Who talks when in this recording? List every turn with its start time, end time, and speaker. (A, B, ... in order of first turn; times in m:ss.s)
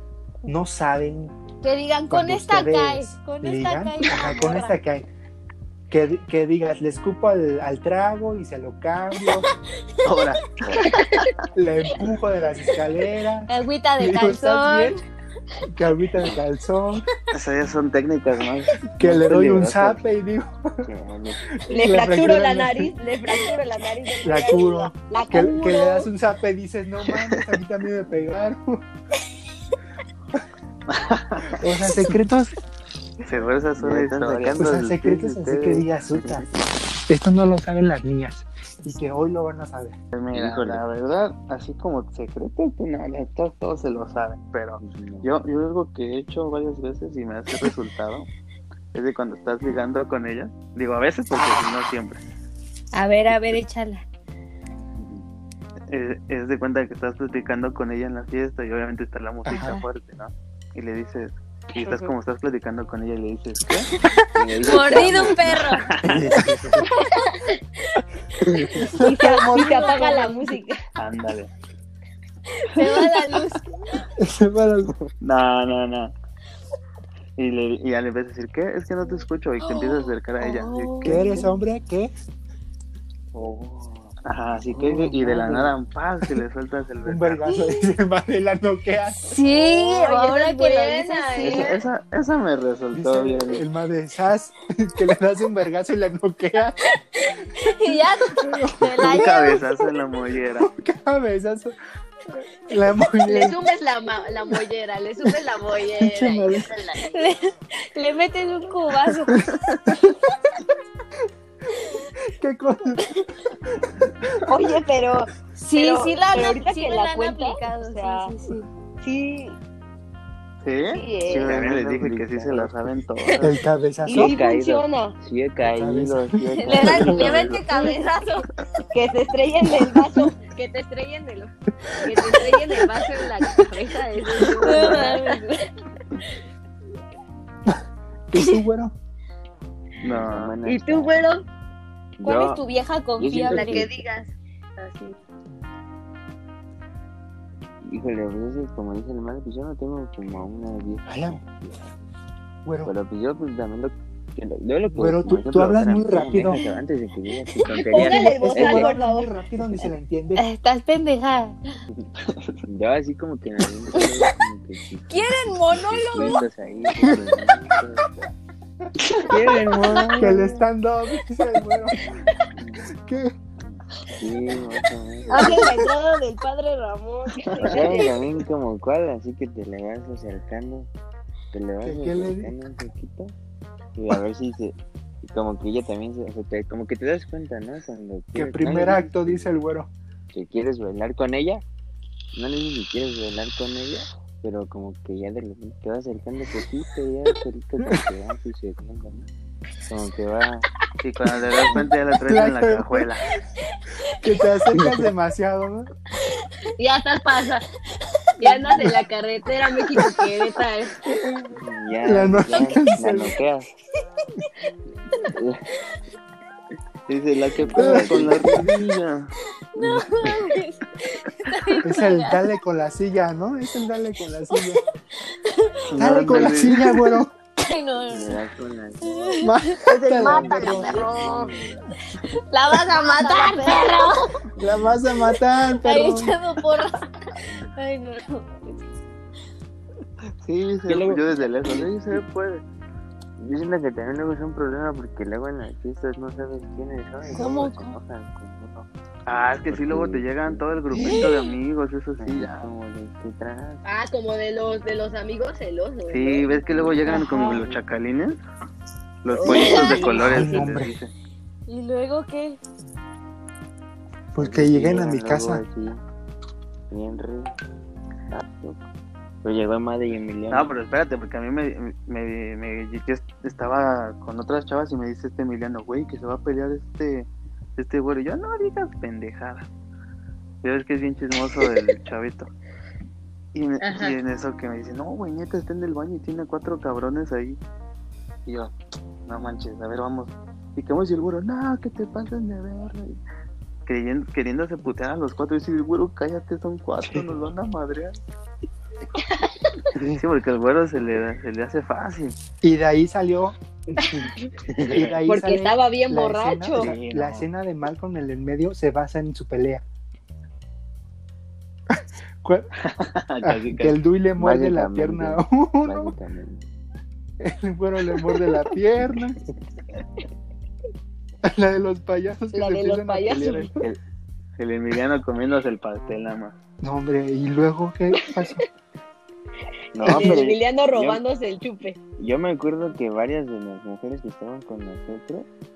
0:00.5-0:01.4 A
0:01.6-0:04.8 B
0:02.1-0:05.1 A
0:05.9-0:09.5 A
0:10.0-0:10.6 C
0:10.6-0:10.9 D
0:10.9-0:11.2 E
0:11.6-0:15.0 A
0:13.5-0:15.0 B
0:15.7-0:17.0 A
0:17.3-0:19.7 C
0:18.8-0:20.9 A
0:19.0-0:20.0 D
0:20.8-0:21.9 D
0:21.6-0:22.9 A
0:21.7-0:26.1 E
0:24.2-0:28.8 A
0:27.1-0:27.6 C
0:30.9-0:31.7 C
0:31.5-0:32.6 A
0:33.2-0:34.7 C
0:33.8-0:35.9 D
0:34.6-0:36.5 A
0:37.1-0:40.0 A
0:40.1-0:48.3 C
0:40.3-0:40.8 D
0:44.8-0:45.3 D
0:48.9-0:52.2 C
0:52.9-0:54.0 B
0:55.0-0:55.2 D
0:55.9-1:03.9 C
0:59.5-0:59.8 A
0:59.5-0:59.8 B
1:01.8-1:02.1 E
1:04.3-1:05.7 D
1:04.6-1:06.0 B
1:05.0-1:06.6 C
1:06.0-1:06.8 A
1:07.1-1:08.0 B
1:08.6-1:10.2 A
1:08.8-1:10.8 E
1:09.3-1:10.6 B
1:11.0-1:11.5 C
1:12.6-1:14.0 B
1:12.8-1:13.6 C
1:14.2-1:14.9 A
1:15.2-1:16.1 C
1:17.4-1:21.4 C
1:19.6-1:21.4 B
1:21.0-1:22.1 A
1:23.4-1:24.2 D
1:24.2-1:27.4 C
1:24.8-1:25.7 A
1:27.0-1:29.3 A
1:27.5-1:27.8 B
1:29.2-1:31.8 B
1:29.5-1:31.8 E
1:31.4-1:33.6 C
1:32.9-1:36.8 A
1:37.2-1:39.6 B
1:37.9-1:39.4 A
1:38.9-1:40.7 C
1:40.6-1:41.8 A
1:42.7-1:43.6 A
1:43.3-1:47.1 E
1:46.0-1:46.7 A
1:47.0-1:49.4 B
1:49.5-1:49.8 C
1:52.3-1:53.0 A
1:53.8-1:54.3 A
1:54.5-1:58.3 E
1:55.6-1:58.7 B
1:59.0-1:59.6 E
2:00.6-2:03.6 C
2:00.9-2:01.5 E
2:01.4-2:02.7 D
2:03.4-2:04.4 A
2:04.1-2:05.2 E
2:04.1-2:07.6 D
2:05.6-2:07.4 A
2:06.6-2:08.4 E
2:06.7-2:08.4 B
2:08.9-2:15.5 E
2:14.6-2:15.5 B
2:18.3-2:19.0 A
2:18.4-2:18.6 B
2:20.0-2:20.5 C
2:20.0-2:21.2 D
2:20.6-2:21.4 E
2:22.2-2:22.6 D
2:22.2-2:24.0 B
2:23.2-2:23.9 D
2:23.4-2:25.2 E
2:27.8-2:31.9 D
2:31.1-2:31.4 A
2:32.6-2:32.9 A
2:32.8-2:38.9 D
2:34.9-2:36.6 A
2:37.9-2:39.3 E
2:38.0-2:40.4 A
2:40.4-2:41.6 B
2:42.3-2:42.6 C
2:42.7-2:48.1 D
2:45.1-2:46.4 B
2:49.2-2:50.6 D
2:50.2-2:52.0 A
2:52.6-2:52.9 D
2:53.0-2:53.3 A
2:53.6-2:55.6 D
2:55.3-2:58.2 E
2:55.4-2:55.7 A
2:57.5-2:57.8 C
2:57.6-3:00.9 D
3:01.5-3:03.4 D
3:01.8-3:02.5 A
3:04.0-3:09.5 D
3:08.4-3:09.9 A
3:10.3-3:11.6 D
3:12.3-3:19.3 D
3:19.8-3:20.7 D
3:21.0-3:23.3 C
3:22.3-3:23.2 A
3:24.1-3:25.9 A
3:24.7-3:25.0 D
3:26.8-3:27.6 E
3:28.4-3:31.0 E
3:31.5-3:33.7 D
3:32.0-3:33.4 A
3:35.2-3:35.8 D
3:37.1-3:39.3 C
3:37.5-3:38.6 D
3:37.8-3:38.8 A
3:39.7-3:42.5 B
3:39.8-3:40.4 A
3:41.8-3:44.8 A
3:44.6-3:45.9 B
3:45.9-3:47.0 C
3:46.0-3:47.3 A
3:47.6-3:48.5 B
3:48.1-3:49.4 D
3:49.0-3:51.5 B
3:49.4-3:51.1 A
3:49.9-3:51.8 D
3:50.7-3:51.5 E
3:52.5-3:54.4 B
3:52.9-3:54.2 E
3:54.5-3:55.0 D
3:54.6-3:56.3 A
3:55.8-3:58.8 B
4:00.4-4:02.6 C
4:00.9-4:02.2 D
4:03.4-4:11.2 D
4:07.2-4:08.0 B
4:09.3-4:12.7 C
4:10.9-4:11.5 B
4:12.2-4:13.8 D
4:13.8-4:16.6 E
4:16.1-4:18.4 C
4:16.7-4:17.8 D
4:17.1-4:17.6 B
4:19.2-4:21.1 C
4:19.3-4:20.7 E
4:19.5-4:20.1 B
4:20.2-4:21.0 A
4:21.7-4:22.6 B
4:24.3-4:25.6 A
4:24.4-4:26.0 D
4:26.9-4:27.6 D
4:28.3-4:28.8 D
4:29.4-4:30.8 D
4:30.5-4:39.7 C
4:40.6-4:42.5 C
4:43.5-4:47.6 C
4:43.8-4:44.2 E
4:48.5-4:48.7 C
4:49.3-4:53.2 C
4:53.9-4:58.2 C
5:00.0-5:00.2 D
5:00.0-5:02.4 C
5:02.6-5:03.6 A
5:04.0-5:04.5 E
5:04.7-5:05.1 D
5:04.8-5:09.8 A
5:05.3-5:07.0 E
5:06.7-5:07.5 C
5:11.9-5:12.7 A
5:12.8-5:14.0 C
5:13.4-5:16.2 A
5:14.4-5:16.6 D
5:17.4-5:19.4 A
5:21.4-5:23.8 A
5:22.5-5:23.7 E
5:23.4-5:24.0 D
5:24.6-5:26.6 C
5:26.8-5:28.6 A
5:29.9-5:31.2 D
5:30.0-5:32.0 E
5:30.0-5:30.4 A
5:32.2-5:35.5 D